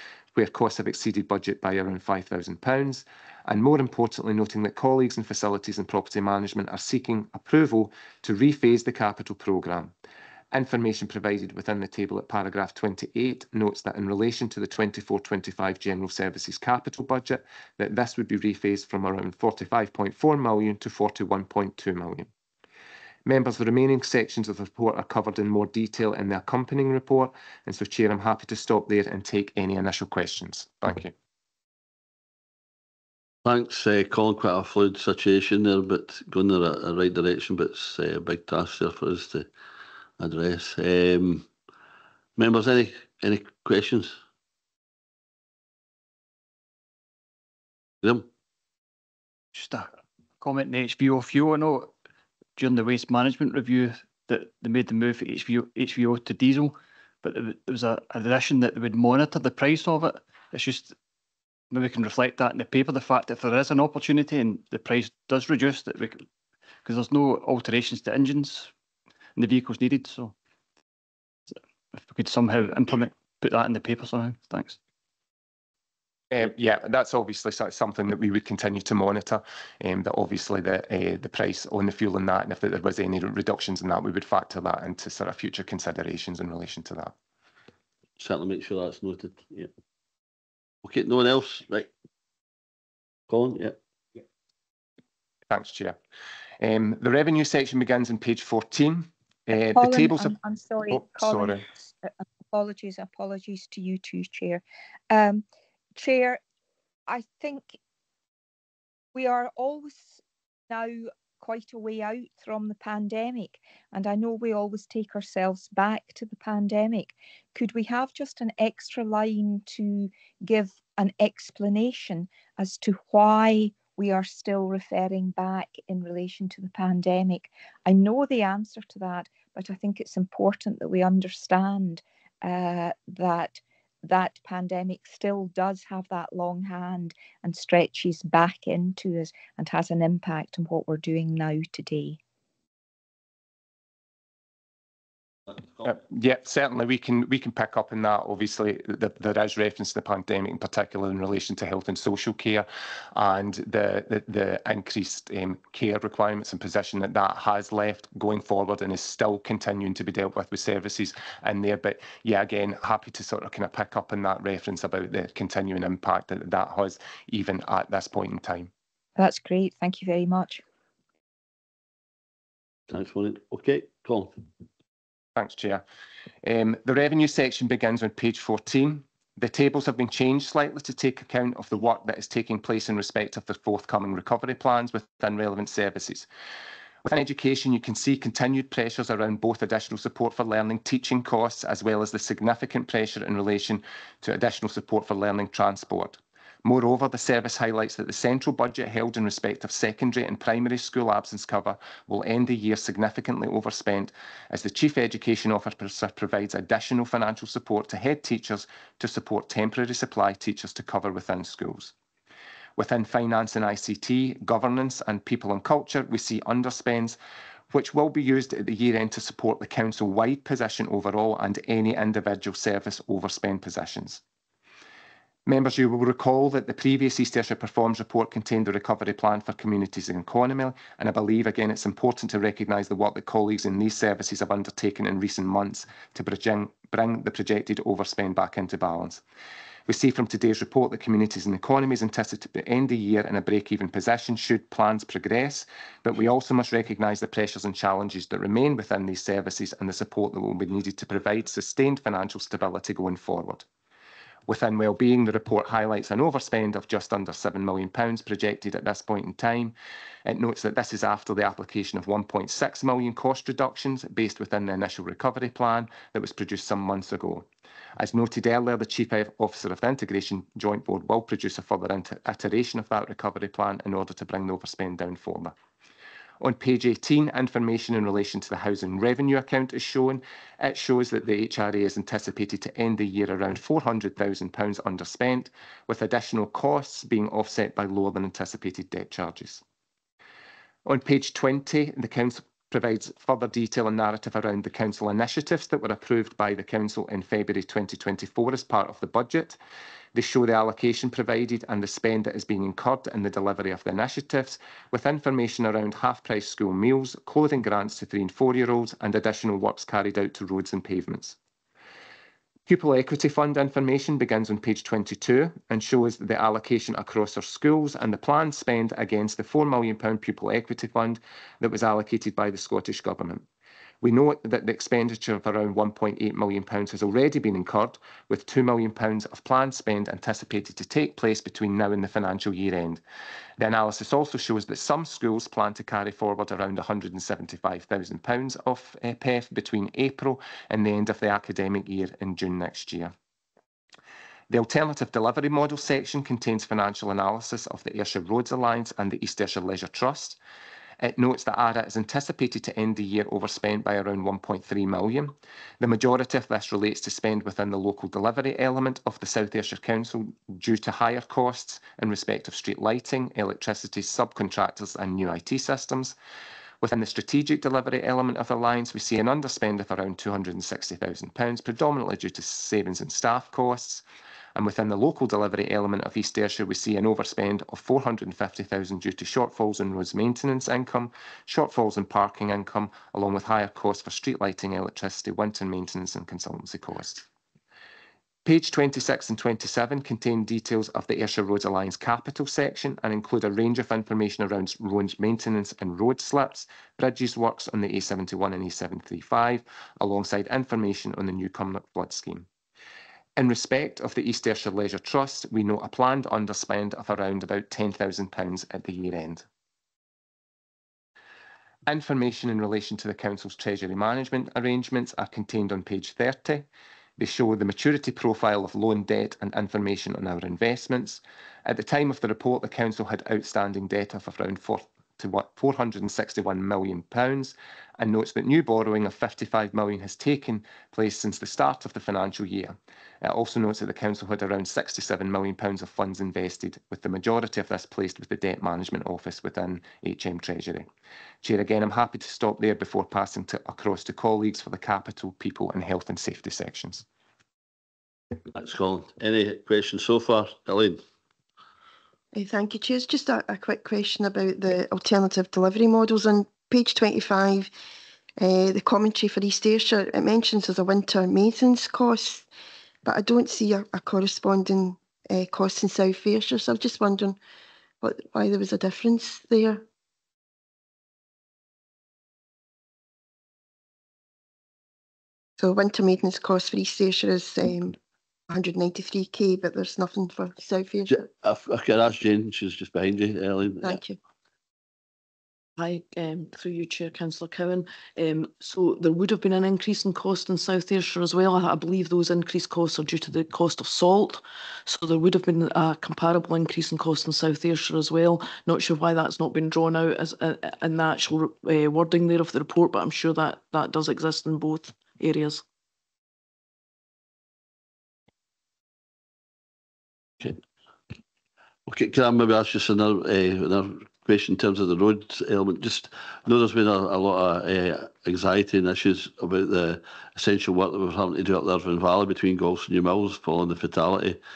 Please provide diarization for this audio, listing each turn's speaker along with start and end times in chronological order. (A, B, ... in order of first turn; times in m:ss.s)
0:00.3-0:09.9 A
0:10.5-0:22.3 A
0:23.2-0:31.1 A
0:33.4-0:39.5 B
0:40.2-0:41.5 B
0:42.4-0:44.2 B
0:49.5-0:51.9 C
0:52.6-1:01.0 C
1:01.7-1:06.2 C
1:06.8-1:08.7 C
1:09.4-1:10.3 C
1:11.5-1:14.8 C
1:16.3-1:27.1 A
1:28.2-1:29.7 B
1:30.8-1:31.9 B
1:33.3-1:33.8 B
1:35.5-1:36.0 A
1:36.6-1:40.3 A
1:39.7-1:45.4 D
1:40.9-1:41.6 A
1:46.0-1:46.4 D
1:47.1-1:47.8 D
1:49.1-1:50.2 D
1:50.7-2:22.2 D
2:25.8-2:48.7 A
2:49.2-2:50.6 D
2:52.9-2:54.4 B
2:55.4-2:55.8 A
2:56.4-3:06.3 A
3:07.0-3:31.9 A
3:32.8-3:37.2 A
3:37.7-3:44.2 A
3:45.4-3:59.2 A
3:59.9-4:13.6 A
4:14.5-4:27.5 A
4:28.0-4:35.5 A
4:36.4-4:49.6 A
4:50.8-4:59.6 A
5:00.1-5:11.4 A
5:12.7-5:23.4 A
5:24.0-5:33.0 A
5:33.6-5:43.1 A
5:44.5-5:50.4 A
5:51.0-6:06.2 A
6:06.8-6:14.0 A
6:14.6-6:27.2 A
6:28.4-6:42.5 A
6:43.4-6:49.4 A
6:51.9-6:56.7 A
6:57.2-7:20.9 A
7:21.4-7:27.0 A
7:28.5-7:31.0 B
7:32.3-7:37.7 E
7:38.4-7:42.5 E
7:43.0-7:47.4 E
7:48.0-7:49.8 E
7:55.6-7:58.0 E
7:58.5-8:01.2 E
8:01.1-8:04.0 B
8:03.8-8:04.2 E
8:05.8-8:25.6 F
8:31.9-8:44.4 B